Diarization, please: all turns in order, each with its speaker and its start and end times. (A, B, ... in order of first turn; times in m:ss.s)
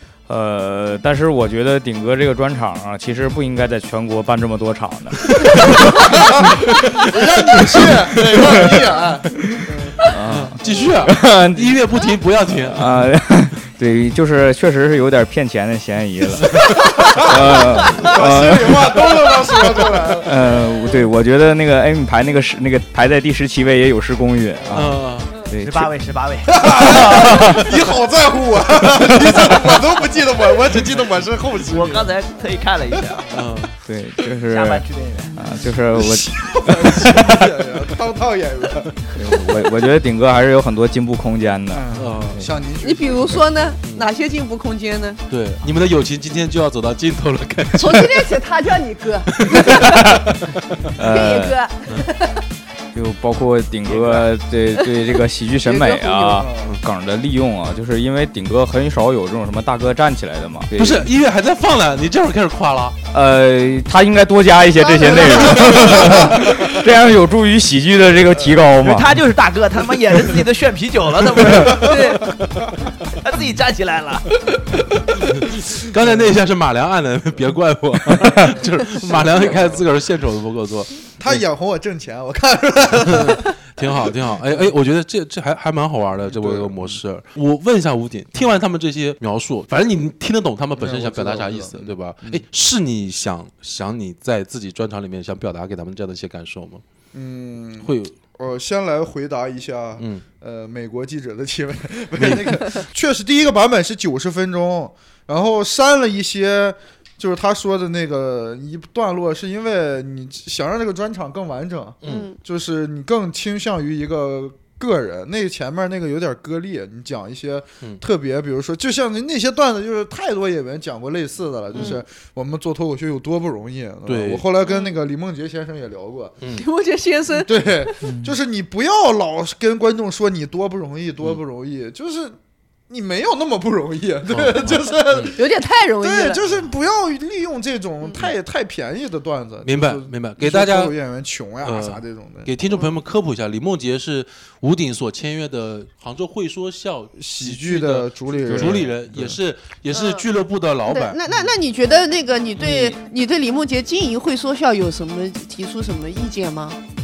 0:00.3-0:05.9 A
0:06.0-0:10.0 B
0:07.5-0:08.6 C
0:10.1-0:11.8 A
0:10.3-0:12.8 C
0:12.7-0:19.0 A
0:16.5-0:20.4 B
0:20.2-0:25.9 A
0:24.7-0:25.3 C
0:25.6-0:27.7 D
0:26.5-0:32.1 B
0:31.6-0:33.3 D
0:32.9-0:33.4 B
0:33.3-0:33.7 C
0:33.8-0:36.4 A
0:34.5-0:35.4 D
0:35.9-0:39.0 B
0:39.1-0:42.5 A
0:41.7-0:42.1 D
0:42.0-0:42.4 C
0:42.3-0:43.4 B
0:42.8-0:45.2 E
0:43.8-0:44.1 C
0:45.3-0:48.4 C
0:47.8-0:50.1 E
0:49.3-0:50.8 C
0:49.8-0:50.2 A
0:51.0-0:51.6 A
0:51.0-0:52.4 E
0:52.9-1:01.1 A
0:55.6-0:56.8 B
1:00.8-1:03.0 C
1:03.1-1:09.1 A
1:05.3-1:06.6 B
1:08.8-1:12.2 D
1:11.5-1:12.1 B
1:11.8-1:12.3 E
1:13.2-1:14.3 D
1:15.3-1:21.4 C
1:19.0-1:19.8 B
1:21.2-1:24.0 B
1:23.0-1:36.8 C
1:26.2-1:27.0 B
1:30.8-1:32.4 B
1:37.1-2:06.4 B
1:37.8-1:38.1 C
1:40.0-1:40.2 C
1:42.2-1:42.5 C
1:52.0-1:52.3 C
1:52.0-1:52.4 E
2:01.8-2:02.0 E
2:04.0-2:04.4 C
2:04.6-2:04.9 E
2:06.5-2:08.0 E
2:07.3-2:12.4 B
2:08.0-2:08.3 A
2:12.9-2:15.4 B
2:14.3-2:15.3 C
2:15.3-2:16.4 E
2:16.0-2:22.5 B
2:19.6-2:21.0 C
2:21.6-2:31.2 C
2:27.2-2:29.3 B
2:28.5-2:28.9 A
2:29.9-2:30.2 E
2:30.9-2:36.8 E
2:32.6-2:33.0 D